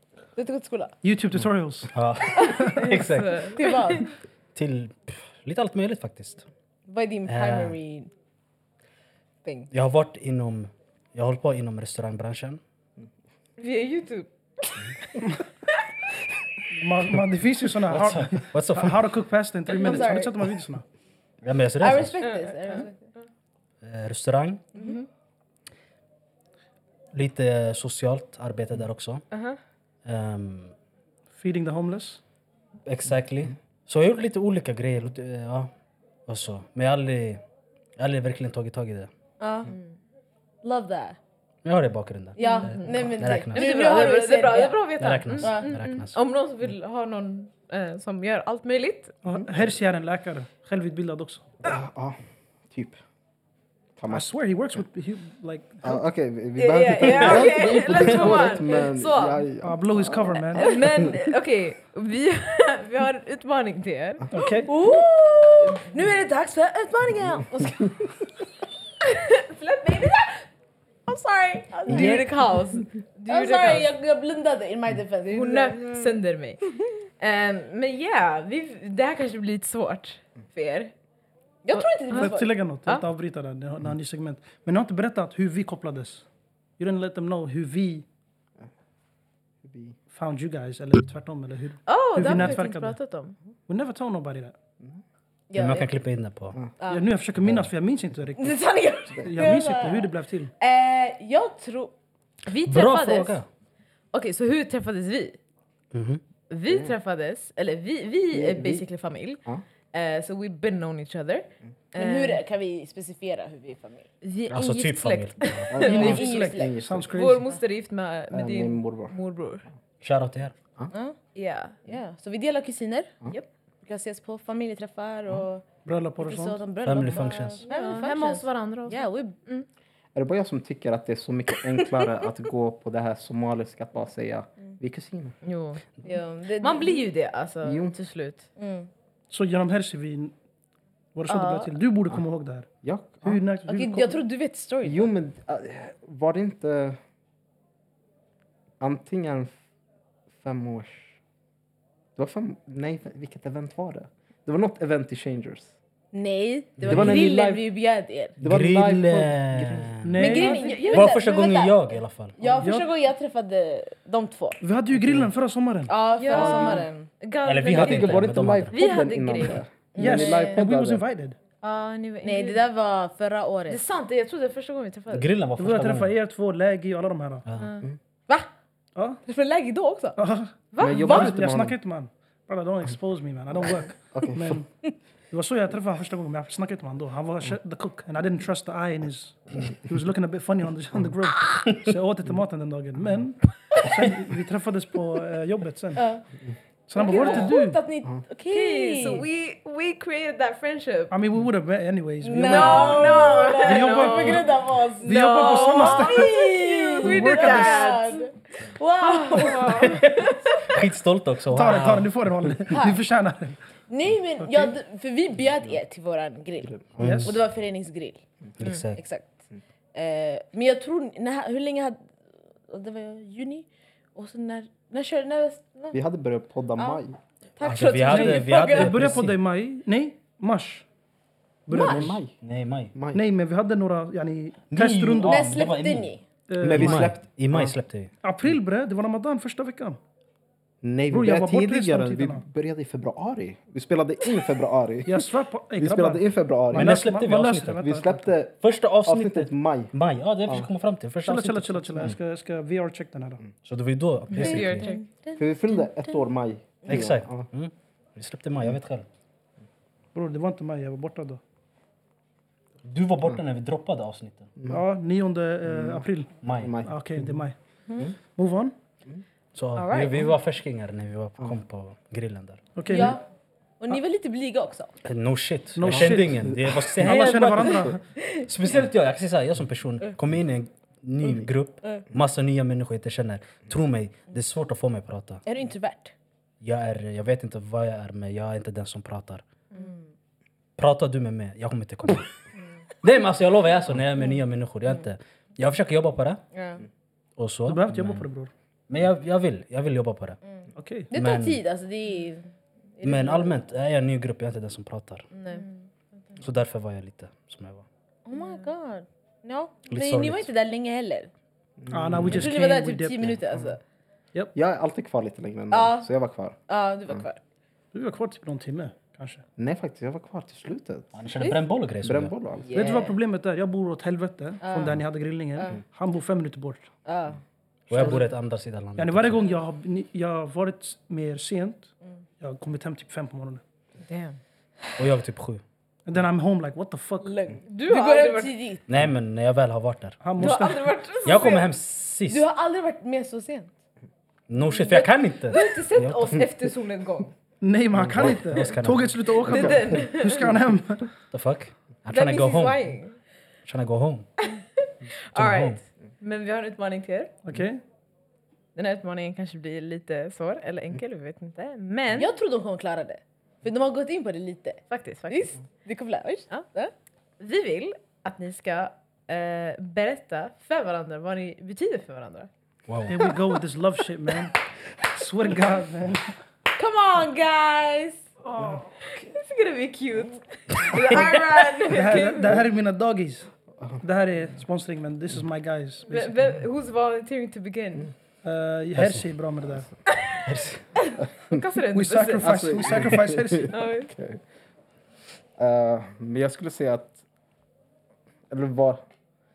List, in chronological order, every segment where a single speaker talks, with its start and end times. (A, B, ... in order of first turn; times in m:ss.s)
0:00.3-0:00.9 A
0:01.0-0:01.9 B
0:01.9-0:03.5 C
0:02.5-0:02.8 B
0:02.8-0:04.0 D
0:03.5-0:04.1 A
0:04.5-0:06.5 C
0:06.9-0:08.1 A
0:07.2-0:07.8 C
0:09.4-0:09.7 A
0:09.7-0:12.6 C
0:13.6-0:14.8 D
0:16.7-0:20.8 B
0:17.8-0:19.1 C
0:19.7-0:20.4 A
0:19.8-0:20.1 D
0:21.4-0:22.2 C
0:21.8-0:23.1 A
0:22.2-0:22.8 D
0:23.8-0:24.7 C
0:24.7-0:25.0 A
0:27.1-0:29.2 C
0:29.3-0:29.6 D
0:30.0-0:30.7 C
0:31.3-0:32.2 B
0:32.8-0:35.7 C
0:36.3-0:37.4 C
0:38.0-0:39.1 C
0:39.4-0:39.7 A
0:40.6-0:41.2 A
0:41.6-0:43.7 C
0:42.4-0:44.9 A
0:42.4-0:49.1 D
0:45.0-0:46.2 C
0:45.4-0:45.7 A
0:49.2-0:51.5 B
0:49.3-0:49.6 E
0:51.6-0:53.0 E
0:54.0-0:54.3 E
0:54.1-0:56.0 B
0:55.8-1:00.7 E
0:56.6-0:59.4 D
0:57.2-0:57.7 A
0:58.4-0:58.8 A
0:59.6-1:00.8 B
1:00.6-1:04.3 D
1:04.3-1:04.7 B
1:04.4-1:08.0 A
1:09.0-1:10.4 D
1:11.1-1:13.9 D
1:11.6-1:12.3 A
1:11.9-1:12.2 E
1:13.3-1:16.2 A
1:15.3-1:16.6 D
1:17.2-1:20.9 D
1:21.6-1:22.5 A
1:21.7-1:23.0 D
1:22.1-1:26.2 B
1:26.8-1:28.0 B
1:29.6-1:30.0 E
1:30.1-1:33.0 B
1:31.9-1:33.4 D
1:33.7-1:34.5 B
1:35.5-1:36.0 A
1:35.5-1:36.6 C
1:36.8-1:37.0 A
1:36.9-1:38.6 B
1:38.4-1:41.9 A
1:39.1-1:40.5 B
1:42.4-1:43.4 D
1:42.6-1:43.4 C
1:44.1-1:45.4 D
1:45.9-1:46.2 C
1:46.5-1:49.4 D
1:46.7-1:46.9 E
1:48.3-1:48.8 E
1:49.9-1:52.4 D
1:51.9-1:54.1 A
1:54.2-1:56.3 D
1:54.5-1:55.7 C
1:55.7-1:57.2 E
1:55.8-1:57.5 B
1:55.9-1:56.7 A
1:57.1-1:59.6 D
1:58.3-1:59.1 E
2:00.0-2:00.5 C
2:00.9-2:01.2 A
2:01.3-2:01.8 D
2:01.8-2:05.6 A
2:05.8-2:06.6 B
2:06.2-2:09.4 A
2:06.8-2:07.6 C
2:07.6-2:09.6 D
2:10.1-2:15.4 E
2:15.4-2:15.8 D
2:16.0-2:17.0 A
2:16.6-2:18.5 D
2:17.6-2:17.9 E
2:18.6-2:18.9 A
2:19.3-2:20.3 B
2:21.1-2:22.7 B
2:21.3-2:21.7 A
2:22.8-2:23.4 E
2:23.2-2:24.2 B
2:23.7-2:25.1 A
2:24.8-2:27.0 E
2:28.8-2:29.5 E
2:30.3-2:31.2 E
2:32.2-2:35.7 E
2:36.1-2:38.3 A
2:36.8-2:37.2 C
2:36.8-2:37.6 E
2:38.4-2:40.1 E
2:38.4-2:40.2 C
2:40.0-2:40.6 B
2:40.2-2:44.6 A
2:40.3-2:41.2 D
2:40.9-2:42.4 C
2:42.6-2:42.9 B
2:44.6-2:45.9 B
2:45.8-2:47.1 A
2:46.2-2:49.6 D
2:46.3-2:46.8 E
2:47.4-2:48.8 C
2:47.7-2:51.0 E
2:49.9-2:50.6 A
2:50.0-2:51.4 B
2:51.6-2:52.6 D
2:52.2-2:53.8 A
2:53.7-2:55.3 D
2:55.1-2:56.1 C
2:55.6-2:57.4 B
2:57.4-2:57.7 C
2:57.6-2:57.8 D
2:58.9-2:59.2 B
2:59.2-3:00.2 A
3:00.2-3:04.7 B
3:00.7-3:01.3 D
3:00.8-3:01.8 E
3:04.0-3:04.6 E
3:05.3-3:16.0 B
3:13.8-3:14.2 C
3:15.9-3:16.2 A
3:16.9-3:17.8 B
3:17.0-3:19.2 A
3:17.1-3:17.5 D
3:18.5-3:21.1 D
3:21.1-3:26.4 B
3:22.2-3:30.0 A
3:22.4-3:28.3 D
3:27.0-3:28.0 B
3:29.0-3:30.8 D
3:29.7-3:32.1 C
3:31.5-3:33.6 B
3:32.7-3:33.0 A
3:33.9-3:38.2 A
3:34.4-3:34.7 B
3:36.7-3:37.2 E
3:37.0-3:37.3 B
3:37.0-3:37.4 C
3:38.6-3:39.0 C
3:38.9-3:39.4 A
3:39.9-3:42.0 A
3:42.7-3:46.0 A
3:45.9-3:47.2 E
3:47.6-3:49.0 A
3:47.6-3:49.4 C
3:48.0-3:50.8 B
3:51.7-3:52.2 B
3:51.7-3:52.1 A
3:51.8-3:52.3 E
3:52.4-3:52.9 C
3:52.9-3:53.2 E
3:53.1-3:55.6 B
3:54.7-3:56.1 C
3:55.2-3:56.2 A
3:56.5-3:57.1 B
3:56.6-3:57.8 E
3:56.7-3:58.1 C
3:58.2-4:00.0 B
4:00.8-4:07.0 E
4:01.1-4:02.4 B
4:05.0-4:08.3 B
4:06.7-4:07.8 C
4:07.8-4:09.9 E
4:08.6-4:12.2 C
4:11.2-4:13.4 B
4:13.6-4:14.9 C
4:14.3-4:15.0 D
4:14.4-4:16.2 A
4:15.4-4:17.5 E
4:16.9-4:19.0 C
4:20.1-4:21.4 B
4:22.8-4:24.5 C
4:24.7-4:27.6 B
4:25.6-4:27.4 E
4:26.4-4:26.8 C
4:28.3-4:28.7 B
4:29.5-4:32.6 C
4:29.7-4:30.3 D
4:32.7-4:33.2 B
4:32.9-4:33.2 A
4:33.8-4:34.9 A
4:35.0-4:45.4 C
4:35.7-4:38.0 B
4:35.9-4:36.6 E
4:45.4-4:46.1 A
4:46.6-4:49.4 C
4:49.7-4:50.0 A
4:50.8-4:52.3 C
4:53.0-4:56.4 C
4:56.5-4:56.8 A
4:57.4-4:58.2 C
4:57.6-4:58.5 B
4:58.9-5:00.4 C
5:00.8-5:01.1 B
5:01.1-5:03.6 A
5:01.1-5:01.6 C
5:03.0-5:05.3 C
5:05.3-5:05.6 A
5:06.4-5:07.8 C
5:08.2-5:11.3 A
5:09.9-5:10.5 C
5:11.8-5:12.5 E
5:11.9-5:13.4 B
5:12.3-5:13.8 A
5:14.5-5:16.6 E
5:15.7-5:16.1 A
5:16.7-5:17.4 A
5:17.9-5:19.4 B
5:19.6-5:21.2 E
5:21.1-5:22.3 C
5:22.0-5:22.8 E
5:22.7-5:23.2 A
5:22.7-5:26.9 B
5:24.6-5:25.0 A
5:27.0-5:27.4 A
5:27.9-5:29.4 C
5:27.9-5:28.2 A
5:27.9-5:28.2 B
5:29.0-5:33.6 B
5:34.0-5:34.4 D
5:35.0-5:35.6 C
5:36.0-5:37.4 B
5:37.2-5:38.8 A
5:37.7-5:38.6 D
5:38.9-5:40.2 C
5:40.2-5:41.0 B
5:40.4-5:41.7 D
5:41.2-5:42.4 C
5:42.3-5:43.7 A
5:44.5-5:46.4 C
5:45.5-5:47.3 D
5:47.6-5:51.1 B
5:48.0-5:48.4 E
5:48.1-5:49.2 C
5:49.4-5:50.5 D
5:49.4-5:50.0 E
5:51.3-5:52.9 C
5:52.1-5:53.2 D
5:53.6-5:54.3 C
5:54.4-5:57.3 D
5:55.3-5:55.8 C
5:57.4-5:57.8 B
5:58.7-6:02.3 D
6:02.1-6:06.9 A
6:04.9-6:05.6 D
6:07.4-6:12.5 D
6:12.9-6:13.3 C
6:13.1-6:16.4 B
6:16.8-6:18.2 A
6:18.4-6:19.3 B
6:19.1-6:22.6 D
6:21.9-6:23.5 B
6:24.0-6:26.3 B
6:26.1-6:28.1 D
6:28.4-6:29.8 B
6:29.0-6:29.3 C
6:30.1-6:30.4 D
6:30.4-6:30.8 C
6:31.0-6:32.6 D
6:31.9-6:33.7 B
6:32.4-6:34.4 E
6:33.7-6:34.1 D
6:35.6-6:37.2 E
6:38.5-6:39.0 E